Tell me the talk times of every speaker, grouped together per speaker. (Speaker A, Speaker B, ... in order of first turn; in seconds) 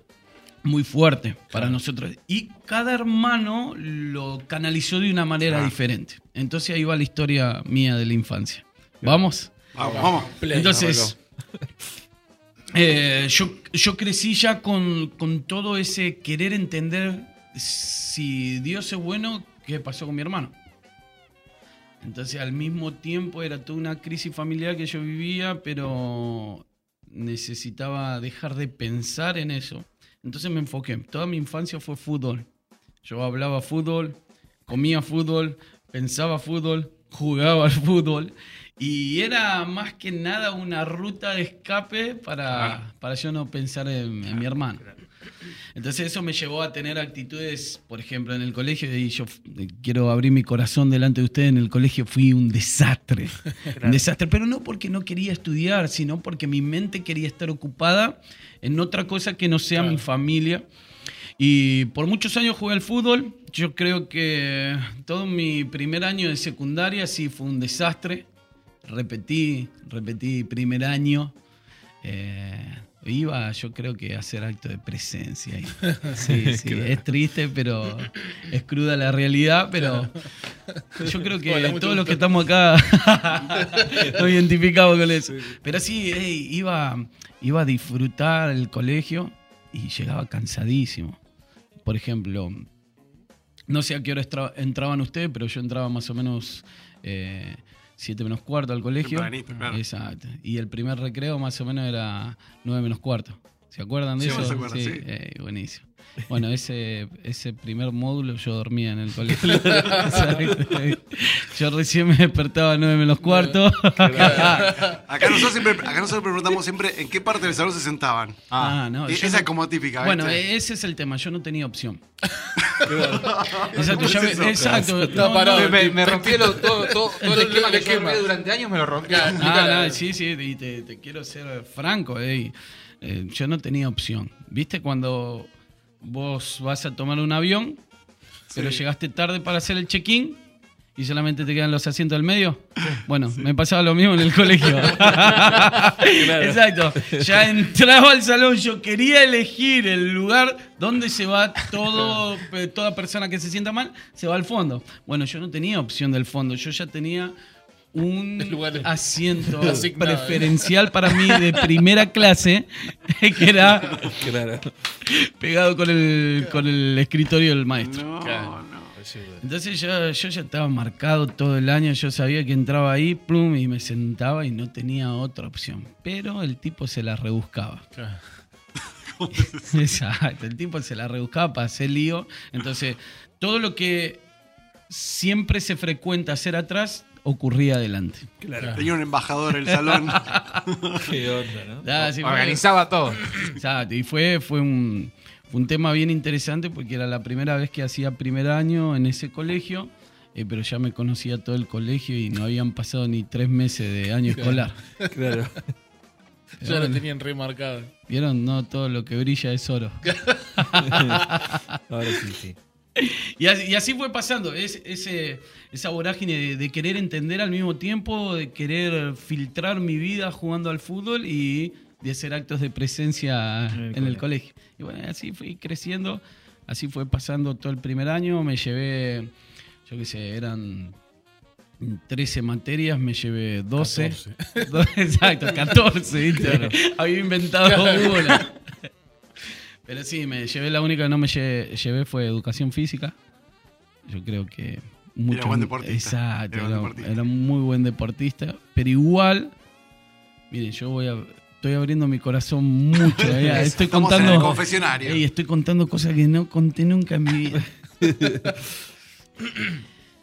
Speaker A: 0.6-9.5, 10.5-11.2, 12.7-20.5, 22.0-32.5, 33.0-44.9, 45.8-60.6, 61.4-68.3, 68.8-71.3, 72.0-80.2, 81.0-91.2, 91.8-92.7, 93.7-115.2, 118.6-122.0, 123.7-125.9, 129.4-135.5, 136.0-137.8, 138.5-140.4, 141.0-157.3, 157.9-164.2, 165.0-168.1, 169.4-177.8, 179.4-184.2, 184.9-188.3, 190.1-190.6, 191.8-192.7, 193.3-204.8, 206.6-207.0, 208.1-211.6, 213.0-229.3, 229.9-231.0, 231.8-238.5, 239.9-243.2, 244.1-249.5, 250.5-257.7
Speaker B: 1.5-1.8, 9.8-11.2, 59.8-60.0, 79.8-82.3, 83.5-84.0, 104.2-104.6, 109.8-110.1, 113.2-113.6, 114.1-115.0, 123.0-128.3, 129.0-130.0, 158.4-158.9, 159.4-160.7, 168.2-169.4, 177.9-178.4, 188.6-188.9, 204.3-205.1, 206.6-207.9, 210.0-210.6, 233.8-234.8, 237.6-238.5
Speaker C: 5.5-5.7, 9.7-10.3, 99.0-99.8, 104.2-105.0, 115.0-118.5, 119.1-120.4, 122.8-124.8, 138.6-138.8, 167.8-168.9, 179.1-179.9, 188.7-191.0, 245.3-247.2, 253.0-255.2
Speaker D: 53.7-54.1, 76.2-77.0, 109.5-110.5, 114.0-114.7, 122.9-123.6, 124.6-125.2, 144.9-147.6, 164.1-164.7, 188.4-188.8, 191.1-192.1, 205.1-205.7, 211.9-212.6, 223.7-224.2, 236.4-236.7, 258.1-258.5
Speaker E: 118.5-118.8, 125.5-129.4, 192.2-193.2